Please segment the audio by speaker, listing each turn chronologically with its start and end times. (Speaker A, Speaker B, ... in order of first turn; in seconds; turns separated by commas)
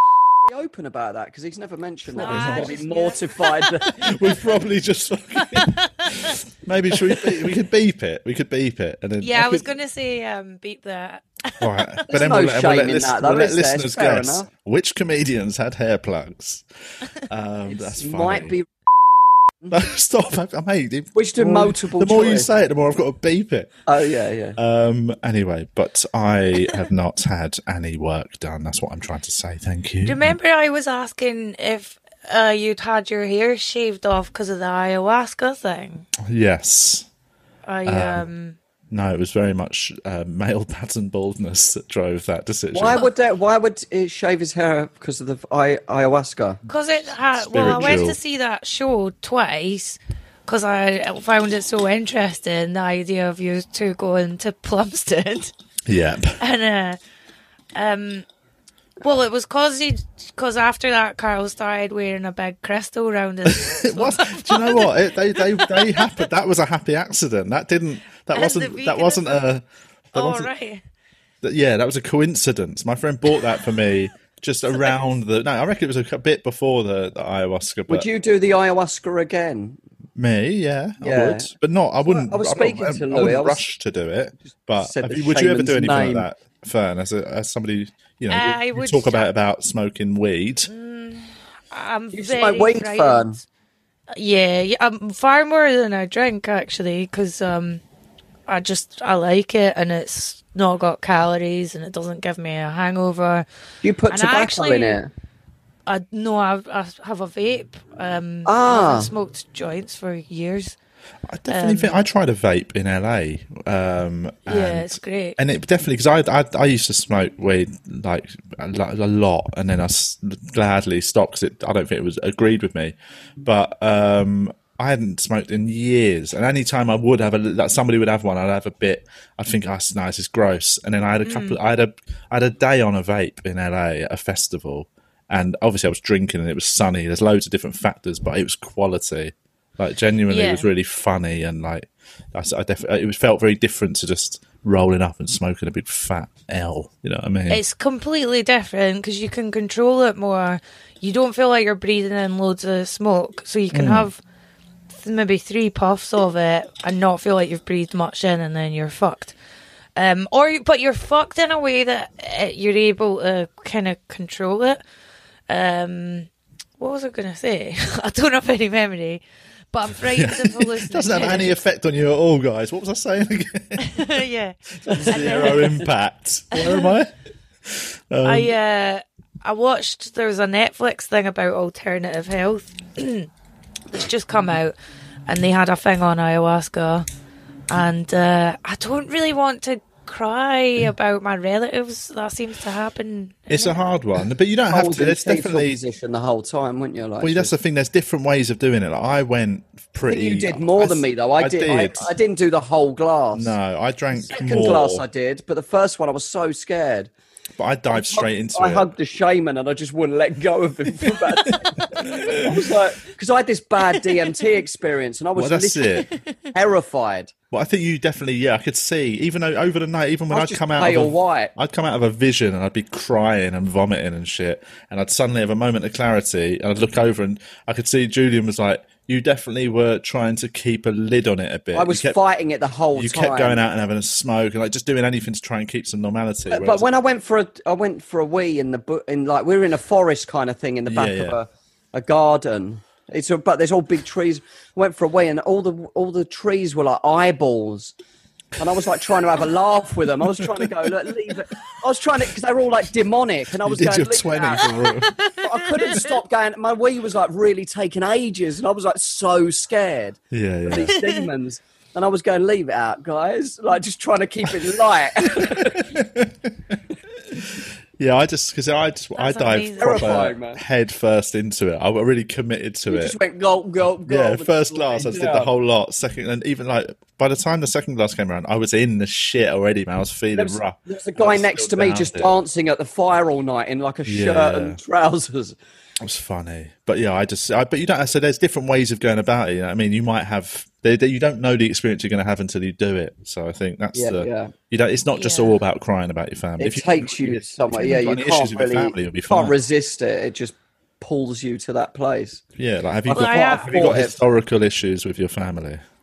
Speaker A: 0.4-4.0, Speaker B: 2.1-3.9, Speaker C: 2.2-2.7, Speaker C: 3.9-9.7, Speaker B: 5.4-6.3, Speaker B: 9.2-12.0, Speaker C: 11.6-16.6, Speaker A: 12.1-14.5, Speaker C: 17.1-18.6, Speaker A: 17.7-18.7, Speaker C: 19.7-23.8, Speaker A: 21.1-22.5, Speaker A: 23.9-24.6, Speaker C: 24.6-30.4, Speaker B: 30.1-36.1, Speaker C: 36.2-37.1, Speaker B: 37.6-38.6, Speaker C: 37.9-38.2, Speaker C: 38.9-43.0, Speaker A: 42.7-46.6, Speaker B: 46.7-55.5, Speaker C: 47.4-48.2, Speaker A: 47.7-47.9, Speaker C: 55.9-56.4, Speaker B: 56.4-57.0, Speaker B: 57.8-58.3, Speaker B: 59.0-66.1, Speaker C: 63.5-70.5, Speaker B: 68.3-69.4, Speaker B: 70.1-70.8, Speaker C: 71.4-78.1, Speaker A: 77.9-79.8, Speaker C: 80.2-90.7, Speaker A: 81.0-81.5, Speaker A: 82.0-83.7, Speaker A: 84.8-86.3, Speaker B: 88.3-89.3, Speaker B: 90.7-93.4, Speaker A: 92.1-93.4, Speaker B: 94.1-97.8, Speaker B: 98.5-103.5, Speaker A: 103.8-105.1, Speaker B: 104.1-105.0, Speaker B: 105.9-110.8, Speaker A: 108.5-109.1, Speaker C: 111.3-147.6, Speaker B: 111.5-112.0, Speaker B: 114.5-115.4, Speaker B: 131.3-131.6, Speaker B: 140.3-140.7, Speaker B: 147.5-154.2, Speaker C: 153.7-154.1, Speaker B: 154.9-159.3, Speaker B: 160.0-164.8, Speaker B: 165.5-169.2, Speaker B: 169.7-171.6, Speaker C: 169.9-174.1, Speaker B: 173.8-175.9, Speaker C: 174.7-177.1, Speaker B: 176.5-176.9, Speaker C: 177.7-178.5, Speaker B: 178.2-183.3, Speaker B: 183.9-184.8, Speaker B: 185.3-187.1, Speaker B: 187.7-193.8, Speaker C: 193.5-195.8, Speaker A: 194.7-197.5, Speaker C: 197.2-202.1, Speaker A: 200.1-203.6, Speaker C: 203.3-205.0, Speaker A: 204.2-207.1, Speaker C: 207.6-208.9, Speaker A: 207.9-217.3, Speaker C: 211.8-212.5, Speaker C: 215.4-216.1, Speaker C: 217.5-232.2, Speaker A: 220.3-221.5, Speaker A: 231.7-233.6, Speaker C: 232.9-236.8, Speaker A: 236.5-247.9, Speaker C: 240.9-241.4, Speaker A: 248.6-254.7, Speaker C: 253.6-255.2, Speaker B: 254.6-256.1, Speaker A: 255.4-265.9, Speaker C: 260.3-261.0, Speaker C: 265.5-266.8, Speaker C: 267.3-273.2, Speaker B: 269.2-270.2, Speaker A: 269.8-270.6, Speaker A: 272.9-275.5, Speaker C: 274.1-282.3, Speaker A: 280.4-285.6, Speaker C: 284.1-284.8, Speaker C: 286.0-299.6, Speaker A: 293.9-294.5, Speaker B: 295.1-295.6, Speaker A: 296.6-302.4, Speaker C: 302.6-305.8, Speaker A: 303.1-304.2, Speaker B: 303.1-303.8